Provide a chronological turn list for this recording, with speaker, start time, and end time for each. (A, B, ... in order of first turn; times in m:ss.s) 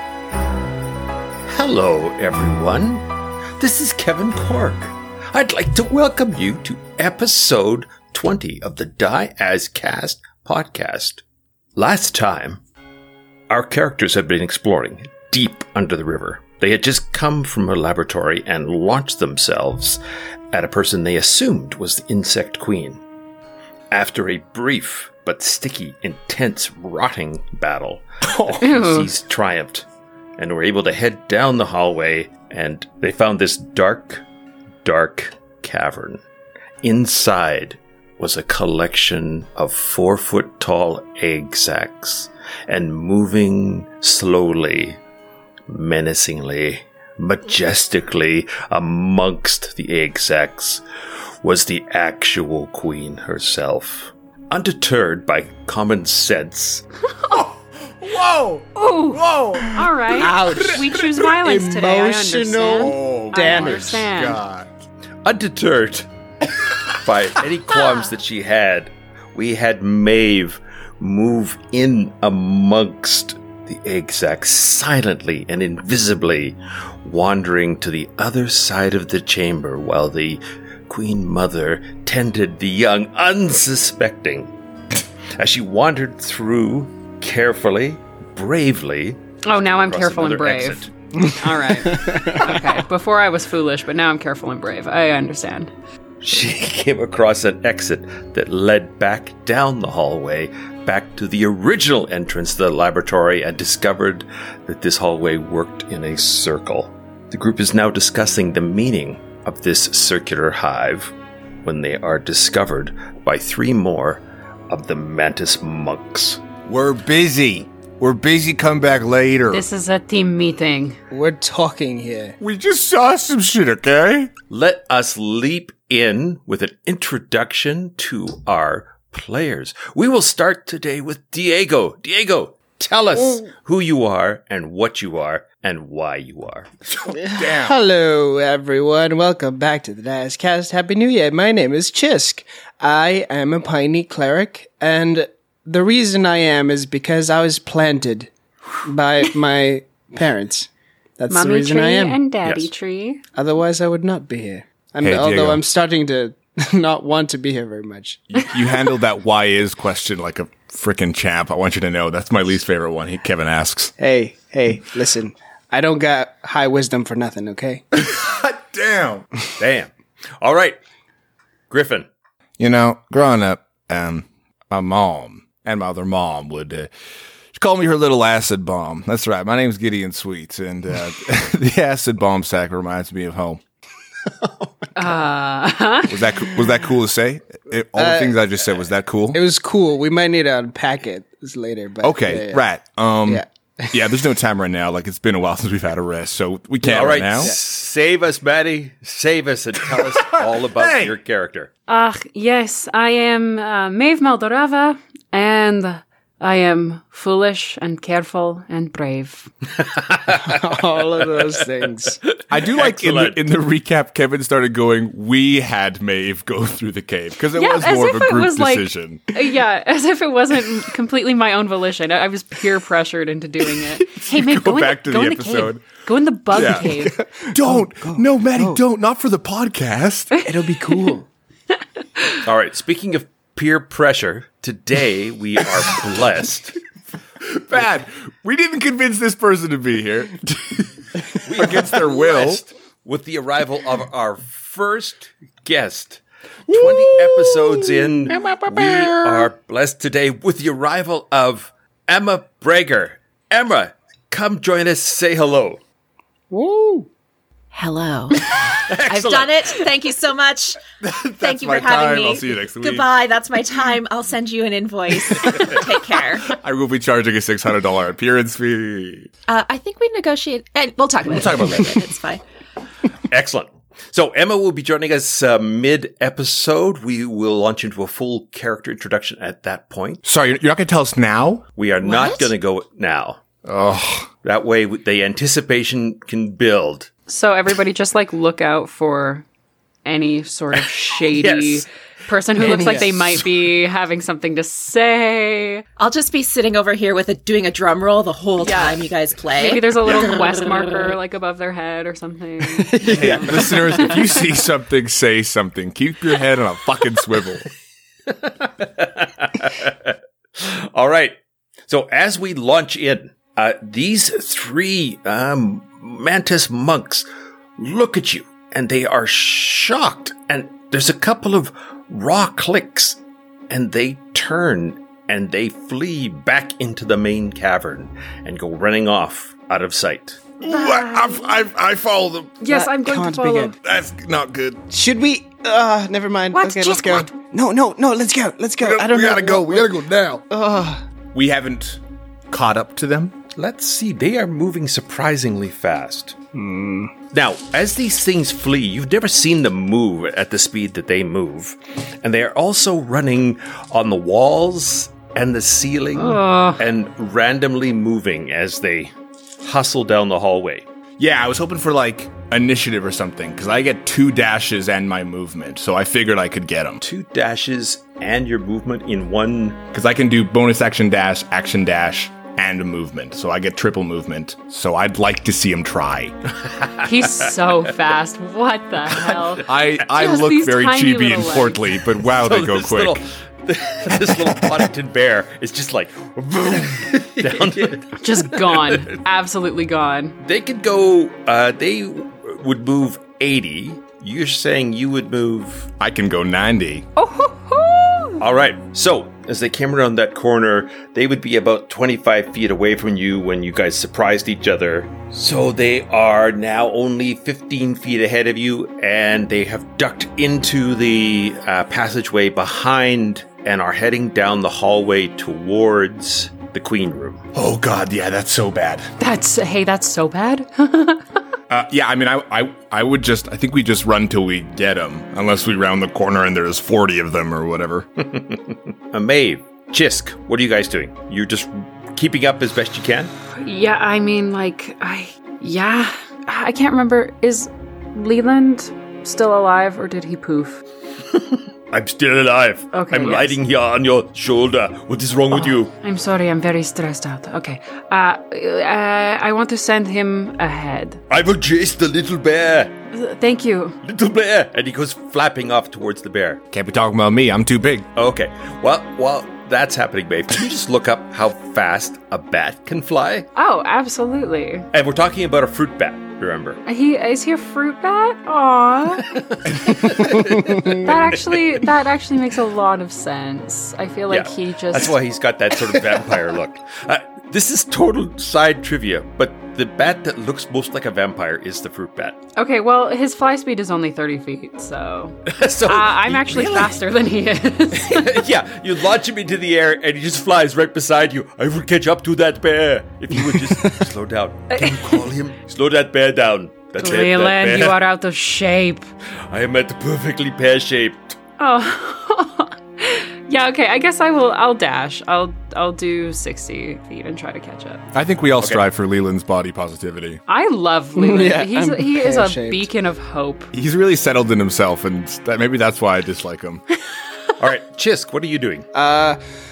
0:01.5-0:03.0 A
0:03.6-0:11.2 A
0:11.8-0:12.6 A
0:13.5-0:20.0 A
0:20.5-0:23.0 A
0:23.9-0:29.8 A
0:28.6-0:29.1 B
0:30.4-0:34.2 A
0:34.8-0:36.2 A
0:36.8-0:45.0 A
0:45.7-0:50.8 A
0:51.4-0:56.8 A
0:57.3-1:01.1 C
0:58.8-1:04.4 B
1:00.1-1:04.0 D
1:02.8-1:04.8 C
1:05.2-1:06.1 A
1:06.9-1:24.5 A
1:25.4-1:30.9 A
1:29.4-1:35.7 B
1:31.8-1:32.4 D
1:36.2-1:51.1 A
1:51.6-1:56.4 A
1:56.7-1:59.6 C
1:59.5-2:01.0 B
2:01.1-2:02.4 D
2:02.4-2:04.3 C
2:04.5-2:16.7 A
2:16.9-2:17.8 C
2:17.1-2:32.2 D
2:31.3-2:33.2 B
2:33.4-2:38.3 D
2:35.0-2:35.6 C
2:38.3-2:43.9 C
2:44.0-2:47.8 D
2:47.9-2:49.3 C
2:49.6-2:50.8 A
2:51.7-2:52.1 A
2:52.6-2:56.9 C
2:57.5-3:03.6 C
3:05.0-3:06.2 B
3:06.0-3:09.4 C
3:08.0-3:08.4 D
3:09.3-3:12.6 D
3:12.0-3:17.5 C
3:13.3-3:14.0 D
3:16.8-3:21.7 A
3:19.9-3:21.2 C
3:21.9-3:29.5 B
3:29.8-3:30.7 A
3:30.3-3:32.2 D
3:31.3-3:31.6 A
3:32.2-3:33.4 A
3:32.5-3:39.3 C
3:37.6-3:47.2 B
3:44.0-3:45.8 C
3:46.5-3:50.4 C
3:46.6-3:48.8 D
3:50.4-3:51.3 D
3:52.2-3:52.4 B
3:52.4-3:56.8 A
3:57.4-4:02.6 C
4:01.4-4:15.8 A
4:08.3-4:09.5 D
4:16.5-4:17.1 D
4:17.7-4:20.8 E
4:18.5-4:19.9 A
4:21.0-4:23.1 C
4:21.4-4:26.5 E
4:26.4-4:29.3 C
4:29.5-4:32.4 E
4:31.3-4:31.9 C
4:33.3-4:40.2 A
4:40.2-4:41.6 C
4:41.8-4:43.4 A
4:42.0-4:42.5 E
4:43.6-4:44.3 C
4:44.4-4:47.1 A
4:47.3-4:49.5 B
4:50.0-4:55.8 B
4:51.2-4:51.8 A
4:52.6-4:53.4 A
4:56.0-5:00.2 E
4:58.6-5:04.3 B
5:02.8-5:04.2 D
5:03.1-5:07.7 C
5:08.3-5:11.4 A
5:11.9-5:17.3 A
5:17.8-5:23.2 A
5:23.7-5:30.4 A
5:30.6-5:32.6 C
5:30.6-5:31.5 B
5:32.6-5:33.7 B
5:32.7-5:33.7 D
5:33.8-5:34.8 C
5:34.9-5:40.0 D
5:36.5-5:37.3 B
5:38.8-5:40.4 C
5:40.5-5:41.0 D
5:41.3-5:43.3 C
5:43.6-5:46.4 A
5:46.5-5:47.1 D
5:47.3-6:00.8 A
5:56.2-5:56.8 B
6:01.2-6:07.0 C
6:07.0-6:09.8 A
6:09.9-6:16.3 C
6:16.8-6:17.1 A
6:17.0-6:21.8 B
6:19.1-6:23.2 C
6:22.2-6:29.1 A
6:24.3-6:24.6 C
6:28.2-6:30.4 B
6:30.4-6:35.9 A
6:36.0-6:37.1 C
6:37.2-6:38.4 B
6:38.4-6:57.4 A
6:57.5-6:59.1 C
6:59.2-7:01.2 B
7:01.7-7:08.1 C
7:08.2-7:13.3 A
7:13.6-7:20.8 B
7:21.9-7:25.9 A
7:22.9-7:23.6 B
7:25.5-7:31.2 B
7:31.3-7:32.9 A
7:33.1-7:34.0 B
7:34.0-7:36.6 A
7:36.7-7:38.1 C
7:38.2-7:43.5 A
7:43.6-7:44.9 B
7:44.9-7:46.8 A
7:46.9-7:49.4 B
7:49.3-7:51.5 A
7:50.4-7:50.9 D
7:50.9-7:55.2 B
7:54.3-8:02.4 A
8:02.6-8:08.4 B
8:05.5-8:07.0 A
8:08.0-8:18.0 A
8:14.7-8:15.2 B
8:17.0-8:19.1 B
8:19.5-8:21.4 A
8:21.6-8:28.0 B
8:28.1-8:30.4 C
8:30.5-8:33.7 B
8:31.2-8:32.9 D
8:33.7-8:36.8 C
8:37.6-8:38.9 A
8:38.9-8:39.4 D